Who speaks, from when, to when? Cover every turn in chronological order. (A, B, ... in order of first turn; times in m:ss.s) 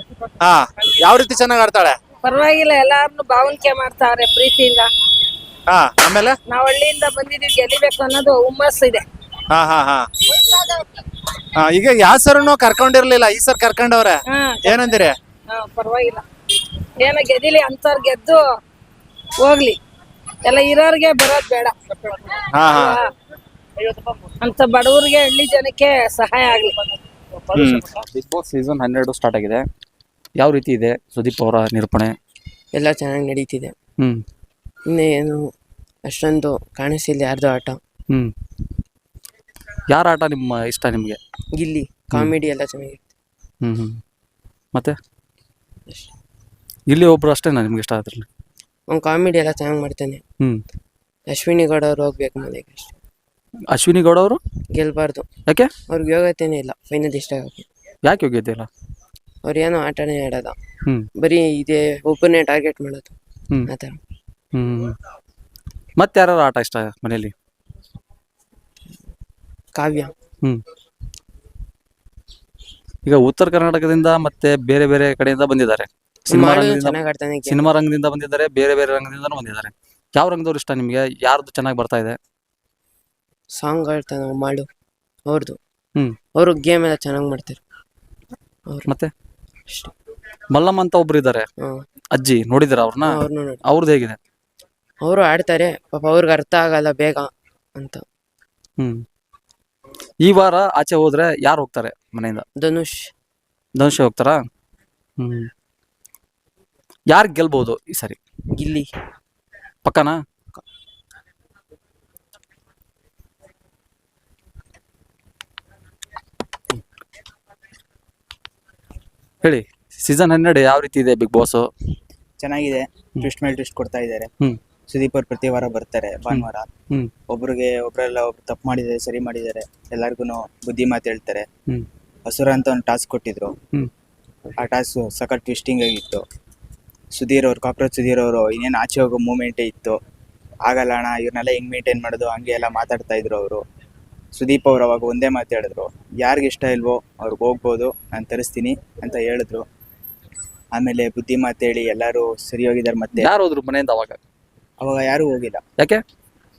0:00.4-0:02.0 A
0:02.2-0:04.9 B
0:05.7-0:06.4 A
0:06.5-0:09.0 B
0:09.5-0:10.1 A
0:10.4-0:10.8 B
0:11.6-0:15.1 A
0:14.3-0:15.0 B
0:15.5-0:16.2 B
0:17.0-0:18.4 B
0:19.4-0:19.8 B
0:20.4-0:23.0 B
0:22.6-0:22.9 A
0:23.8-0:26.9 B
0:27.8-0:29.6 C
0:30.4-0:32.1 C
0:32.7-0:33.7 D
0:34.9-0:35.4 D
0:36.1-0:37.8 D
0:39.9-0:41.2 C
0:41.6-0:43.0 D
0:43.6-0:44.0 C
0:45.9-0:46.1 D
0:46.9-0:48.2 C
0:48.9-0:50.2 D
0:51.3-0:52.9 D
0:53.7-0:54.4 C
0:54.7-0:55.2 D
0:55.9-0:57.6 D
0:58.0-0:58.7 C
0:59.4-1:00.5 D
1:01.2-1:03.1 D
1:03.7-1:04.0 D
1:04.5-1:05.0 C
1:06.0-1:07.3 C
1:09.7-1:10.1 D
1:13.0-1:17.0 C
1:16.3-1:17.6 D
1:17.5-1:22.2 C
1:23.6-1:24.6 D
1:25.3-1:25.6 D
1:26.4-1:27.6 D
1:30.5-1:31.4 C
1:32.2-1:34.2 C
1:33.0-1:33.6 D
1:35.0-1:38.0 D
1:40.2-1:42.4 C
1:42.6-1:43.1 D
1:43.8-1:44.4 C
1:45.2-1:45.5 C
1:47.1-1:48.2 C
1:48.6-1:48.9 D
1:49.8-1:50.2 C
1:59.4-2:01.7 C
2:02.4-2:04.3 E
2:04.9-2:06.6 E
2:06.3-2:07.1 C
2:07.3-2:11.4 E
2:12.2-2:13.6 E
2:14.6-2:16.2 E
2:17.1-2:20.0 E
2:20.6-2:23.6 E
2:24.3-2:29.6 E
2:30.7-2:33.3 E
2:33.2-2:34.2 C
2:34.8-2:35.6 E